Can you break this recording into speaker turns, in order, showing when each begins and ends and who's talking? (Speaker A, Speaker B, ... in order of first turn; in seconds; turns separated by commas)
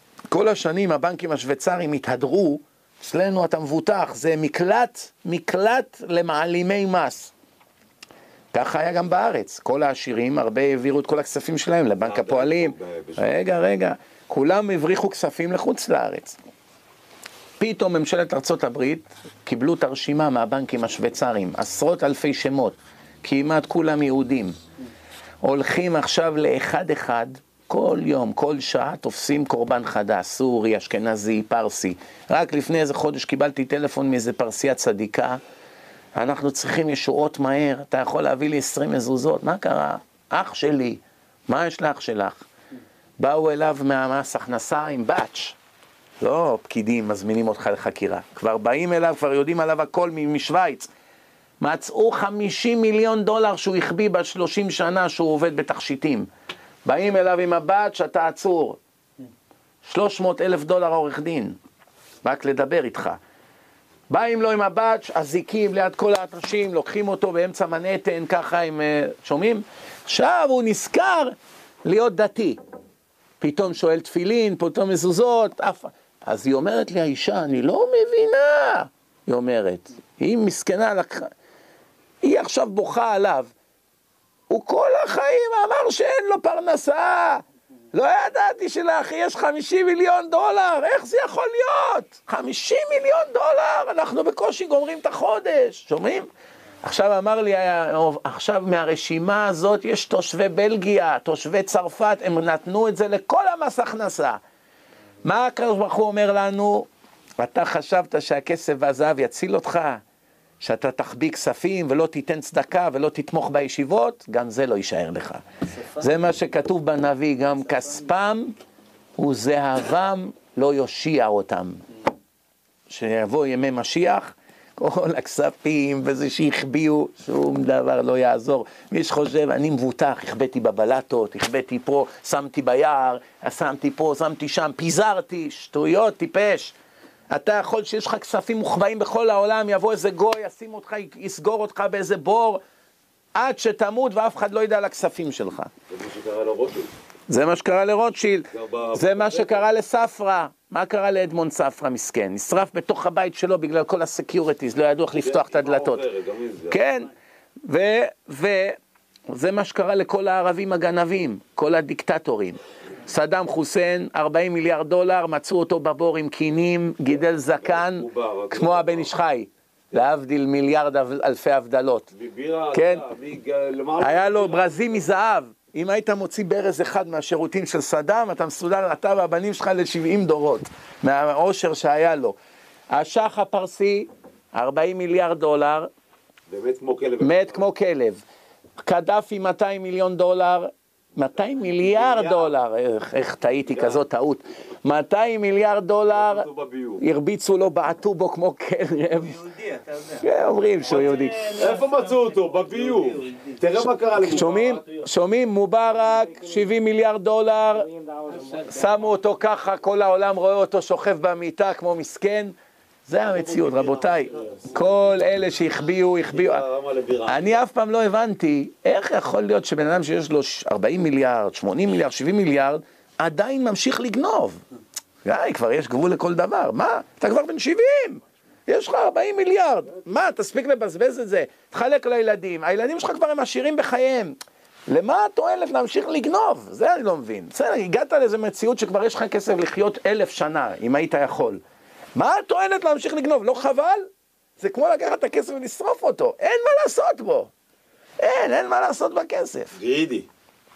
Speaker A: 0.3-7.3, Speaker A: 8.5-16.4, Speaker B: 12.0-13.3, Speaker A: 17.6-24.5, Speaker A: 25.4-35.4, Speaker A: 36.1-42.5, Speaker A: 43.2-45.6, Speaker A: 46.2-50.9, Speaker A: 51.6-56.3, Speaker A: 56.8-58.8, Speaker A: 59.8-61.6, Speaker A: 62.2-63.2, Speaker A: 64.1-72.6, Speaker A: 73.4-81.3, Speaker A: 82.2-83.5, Speaker A: 84.5-96.3, Speaker A: 96.8-104.4, Speaker A: 105.2-106.9, Speaker A: 107.4-110.0, Speaker A: 110.6-115.4, Speaker A: 115.9-118.5, Speaker A: 119.2-121.8, Speaker A: 122.9-136.8, Speaker A: 137.3-142.6, Speaker A: 143.3-145.7, Speaker B: 145.9-146.9, Speaker A: 147.3-156.1, Speaker B: 148.5-149.6, Speaker B: 155.2-156.8, Speaker A: 156.7-157.1, Speaker A: 157.6-158.8, Speaker A: 159.3-172.1, Speaker B: 167.6-169.1, Speaker B: 172.1-175.0, Speaker A: 172.7-173.1, Speaker A: 174.0-182.4, Speaker A: 182.9-185.9, Speaker B: 186.5-187.6, Speaker A: 187.2-188.2, Speaker A: 188.8-196.4, Speaker B: 196.1-197.0, Speaker A: 197.0-199.5, Speaker A: 200.0-201.7, Speaker B: 201.5-204.8, Speaker A: 204.2-207.9, Speaker A: 208.4-212.5, Speaker A: 213.1-216.6, Speaker B: 213.3-214.7, Speaker B: 216.3-217.6, Speaker A: 217.2-224.6, Speaker A: 225.2-234.3, Speaker A: 234.9-241.6, Speaker A: 242.2-247.5, Speaker A: 248.2-249.7, Speaker B: 249.8-250.3